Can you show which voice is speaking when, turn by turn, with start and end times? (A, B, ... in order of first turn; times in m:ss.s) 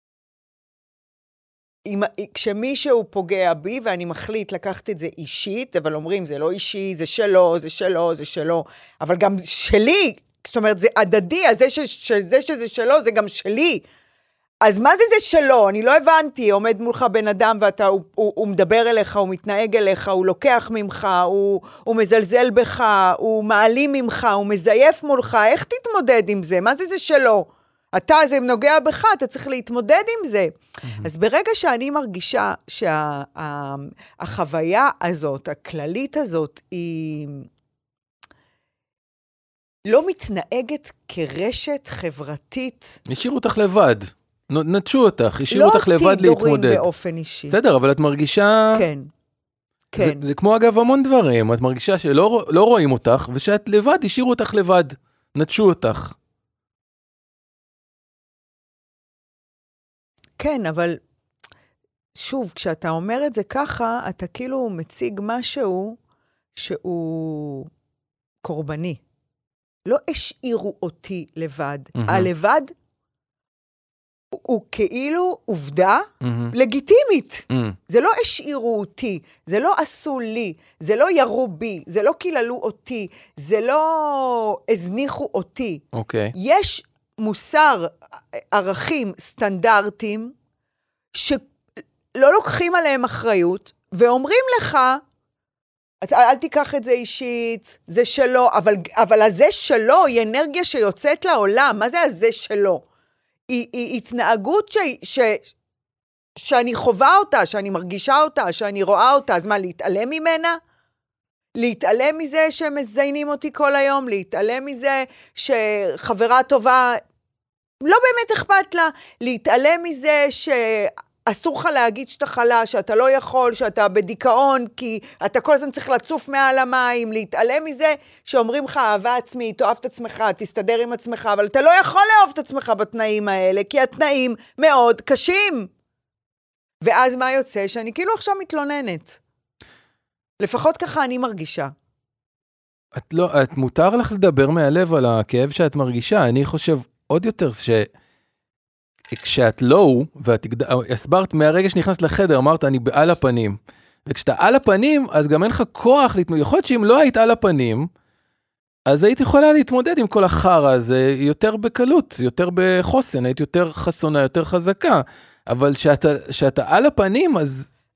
0:01.9-0:13.8 A
0:14.6-0:37.5 A
0:39.9-0:43.0 A
0:43.1-0:46.8 B
0:45.5-0:47.6 A
0:47.5-0:48.8 B
0:48.7-0:49.1 A
0:49.9-0:50.2 A
0:50.0-0:56.2 B
1:00.4-1:01.0 A
1:02.2-1:06.0 A
1:06.6-1:07.7 A
1:08.4-1:09.0 A
1:09.9-1:12.7 A
1:12.0-1:12.3 B
1:14.3-1:30.3 A
1:16.2-1:16.6 B
1:17.5-1:17.8 B
1:25.9-1:26.3 B
1:31.1-1:31.4 A
1:32.1-1:35.0 A
1:36.0-1:42.8 A
1:43.5-1:45.5 A
1:46.4-1:50.6 A
1:51.6-1:57.0 A
1:57.8-2:15.7 A
2:16.8-2:19.2 A
2:20.4-2:21.7 A
2:23.0-2:27.9 B
2:29.1-2:37.9 B
2:38.9-2:47.7 B